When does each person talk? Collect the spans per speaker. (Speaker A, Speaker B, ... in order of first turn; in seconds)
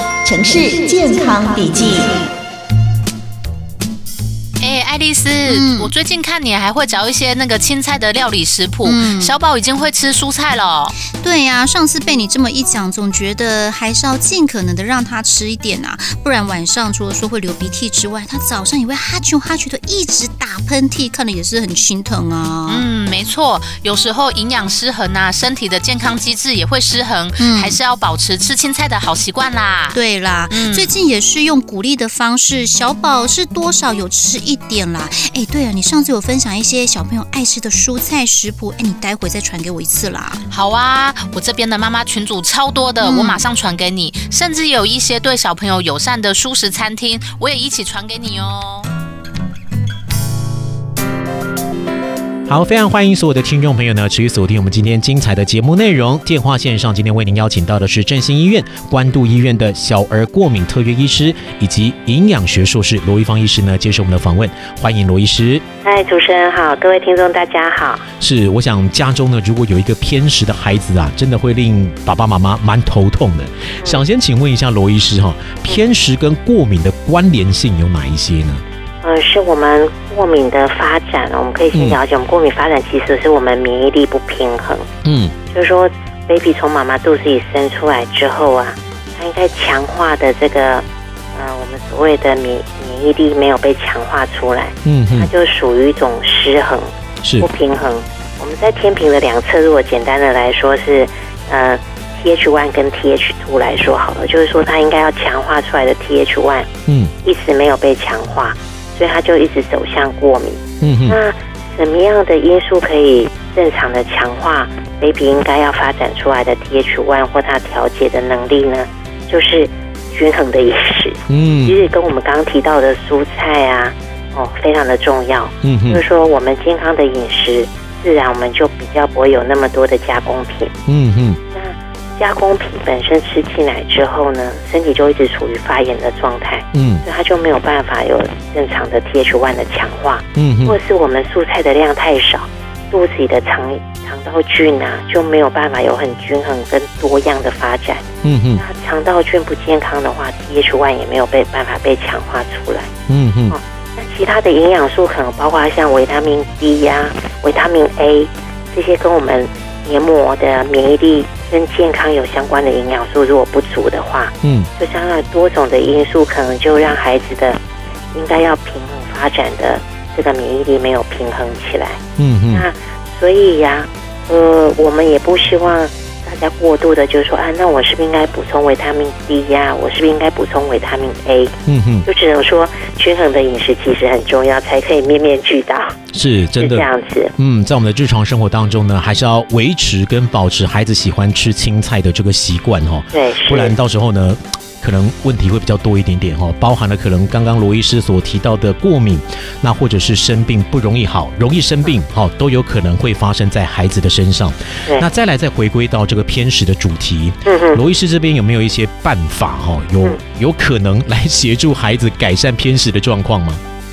Speaker A: 0.2-2.2
Speaker B: 4.6-10.9, 22.6-30.0, 30.5-30.9, 40.5-48.9
Speaker C: 5.4-5.9, 8.8-9.3, 11.0-22.9, 27.4-27.8, 29.9-40.4, 43.0-43.4
Speaker D: 52.5-65.6, 68.2-78.6, 81.7-82.0, 85.0-85.3, 94.8-95.3, 106.9-107.1, 110.8-111.2, 121.3-121.8, 125.6-126.0, 130.9-131.4, 136.7-137.0, 140.3-140.8, 148.2-148.6, 153.1-153.6, 164.4-164.7, 172.2-172.7, 181.7-182.1, 186.1-213.6
Speaker E: 65.8-68.0, 79.0-84.9, 85.5-106.7, 107.2-130.7, 131.5-148.0, 148.6-152.9, 153.5-167.6, 168.1-172.0, 172.5-181.5, 182.0-185.9, 186.6-187.3, 193.1-193.8, 207.4-207.8